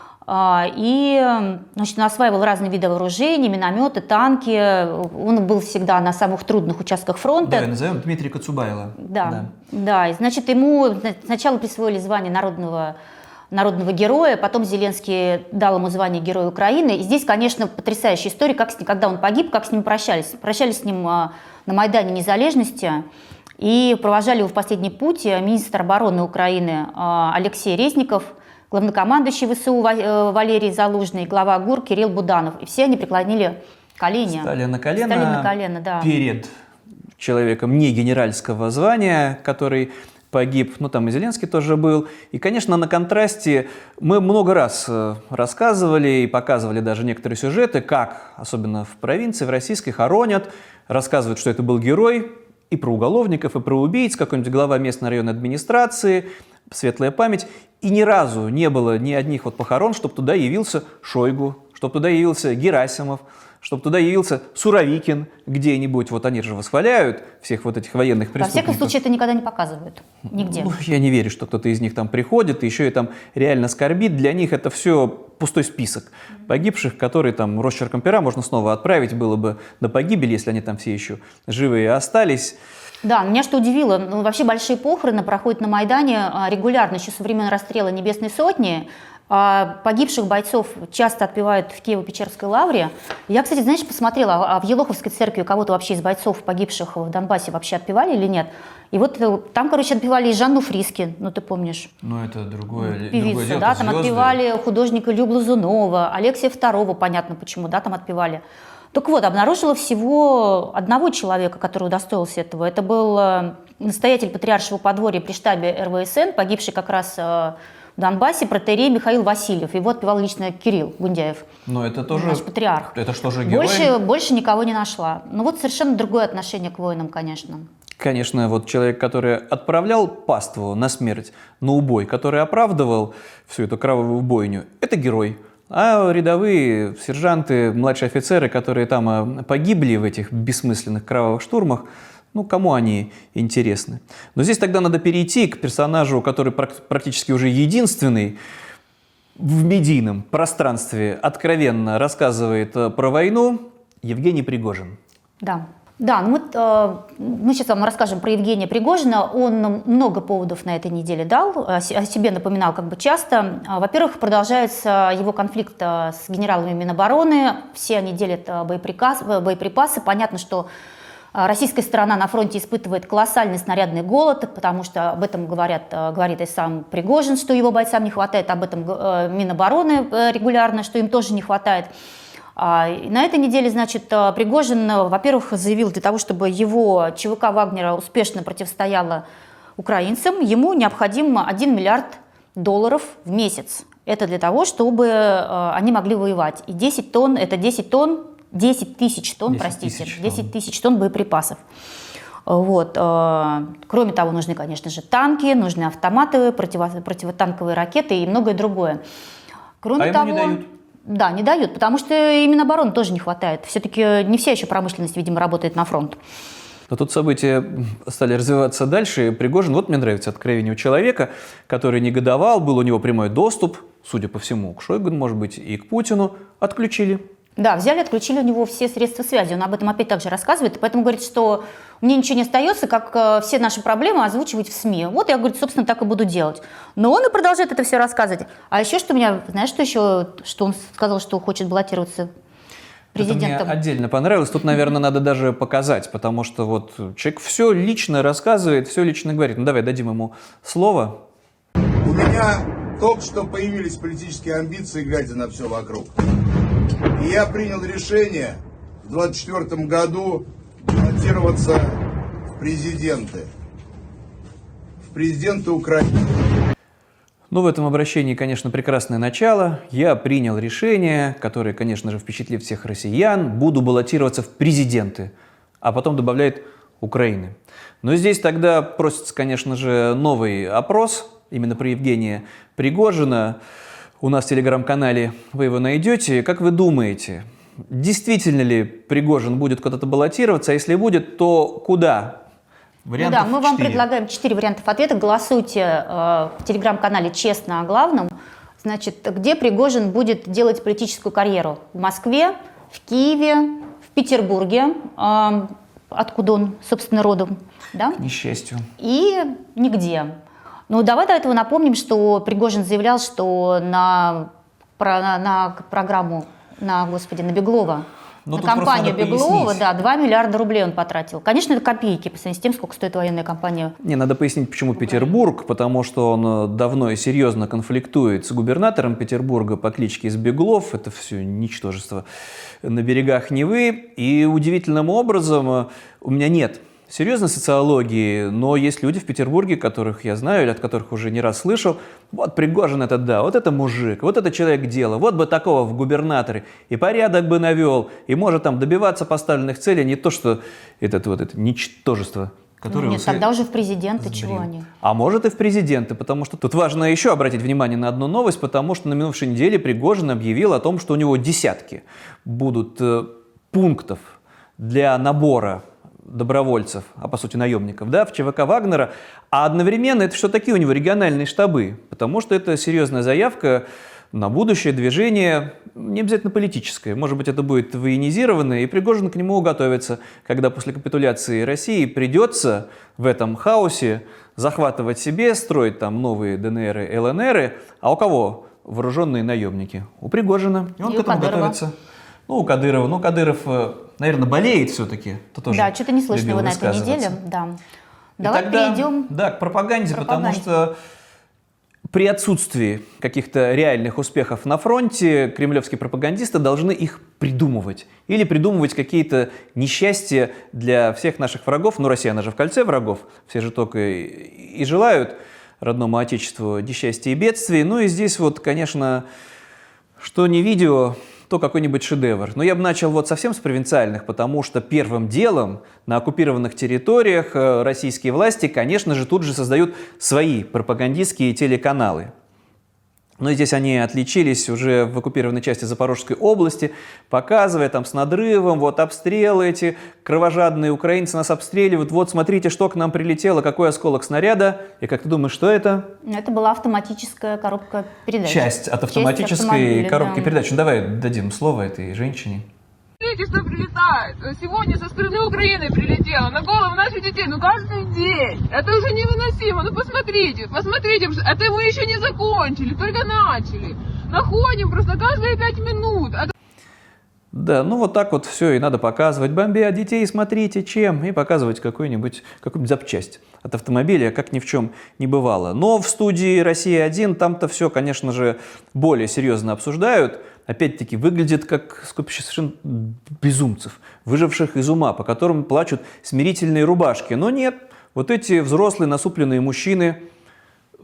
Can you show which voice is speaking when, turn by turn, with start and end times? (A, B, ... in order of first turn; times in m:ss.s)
0:00.2-0:07.7 A
0:07.4-0:09.5 B
0:09.0-0:13.0 A
0:13.5-0:23.0 A
0:23.6-0:34.5 A
0:34.3-0:36.5 B
0:35.0-0:36.1 A
0:37.2-1:08.9 B
1:08.4-1:10.7 A
1:10.3-1:22.6 B
1:23.0-1:41.9 A
1:42.0-1:44.4 B
1:42.7-1:48.4 A
1:48.9-2:01.4 A
2:01.6-2:04.0 B
2:02.1-2:07.7 A
2:08.0-2:28.4 B
2:29.4-2:35.0 B
2:35.4-2:50.7 A
2:51.3-3:01.9 A
3:02.6-3:09.2 A
3:09.8-3:21.6 A
3:19.5-3:20.5 B
3:22.5-3:29.0 A
3:29.8-3:36.2 A
3:30.0-3:30.7 B
3:36.9-3:47.2 B
3:47.6-4:02.3 A
4:03.1-4:11.2 B
4:03.2-4:03.7 A
4:12.0-4:16.1 C
4:17.2-4:22.0 C
4:22.5-4:23.5 C
4:25.0-4:26.3 C
4:27.5-4:43.6 B
4:44.2-4:52.4 B
4:53.0-4:54.0 B
4:53.2-5:08.2 A
5:08.2-5:08.9 B
5:09.0-5:10.3 A
5:10.9-5:23.9 A
5:18.4-5:19.8 B
5:24.0-5:32.2 B
5:25.0-5:25.3 A
5:32.8-5:53.5 B
5:52.9-5:54.9 A
5:54.2-6:31.9 B
6:31.0-6:31.8 A
6:32.5-6:37.4 B
6:35.7-6:37.8 A
6:38.4-6:39.3 A
6:38.4-6:40.9 B
6:40.1-6:40.7 A
6:42.1-6:59.2 B
7:00.2-7:12.3 B
7:13.4-7:26.1 B
7:26.2-7:30.5 A
7:28.4-7:32.6 B
7:33.2-7:46.5 D
7:47.5-8:10.2 B